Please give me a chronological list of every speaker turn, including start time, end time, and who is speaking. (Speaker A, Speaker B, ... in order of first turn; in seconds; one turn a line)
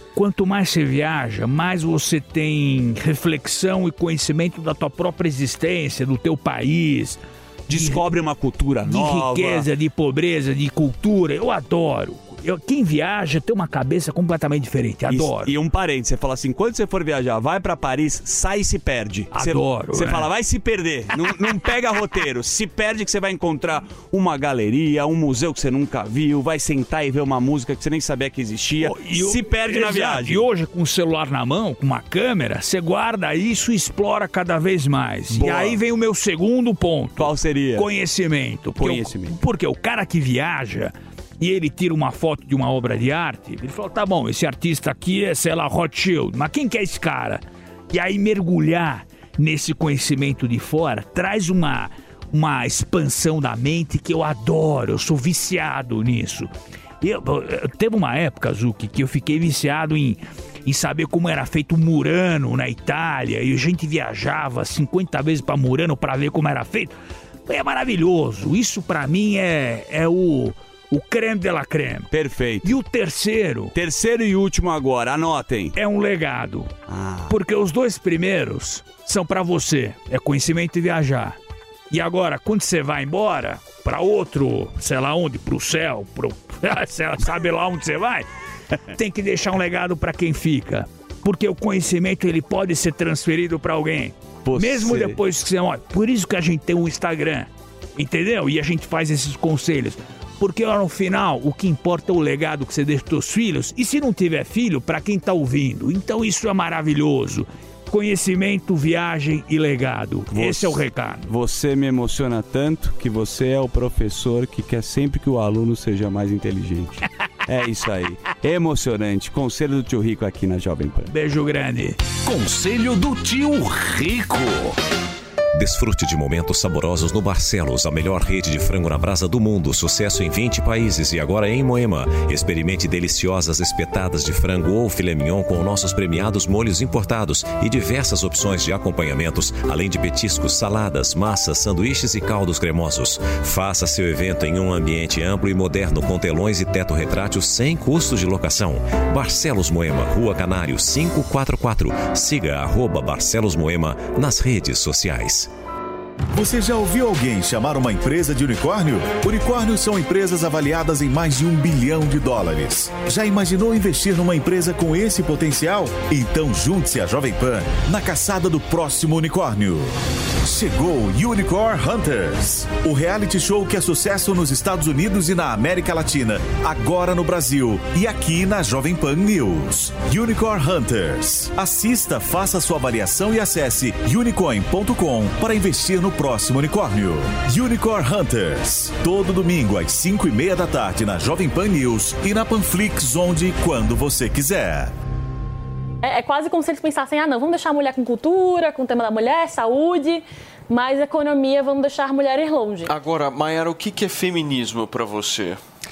Speaker A: 0.1-15.6
Speaker B: 7.7-8.0
Speaker B: 8.8-9.7
Speaker B: 15.1-30.5
Speaker A: 19.3-20.5
Speaker A: 22.5-23.1
Speaker A: 28.8-74.0
Speaker B: 35.3-35.8
Speaker B: 37.2-37.9
Speaker B: 38.8-39.4
Speaker B: 72.1-72.7
Speaker B: 73.8-75.8
Speaker A: 75.7-76.7
Speaker B: 76.9-77.3
Speaker A: 77.2-81.4
Speaker A: 81.9-88.3
Speaker A: 88.9-111.3
Speaker B: 94.5-95.2
Speaker B: 110.3-121.1
Speaker A: 121.1-122.0
Speaker C: 122.3-124.4
Speaker D: 125.5-155.5
Speaker E: 156.3-194.9
Speaker F: 196.0-202.9
Speaker G: 202.8-205.6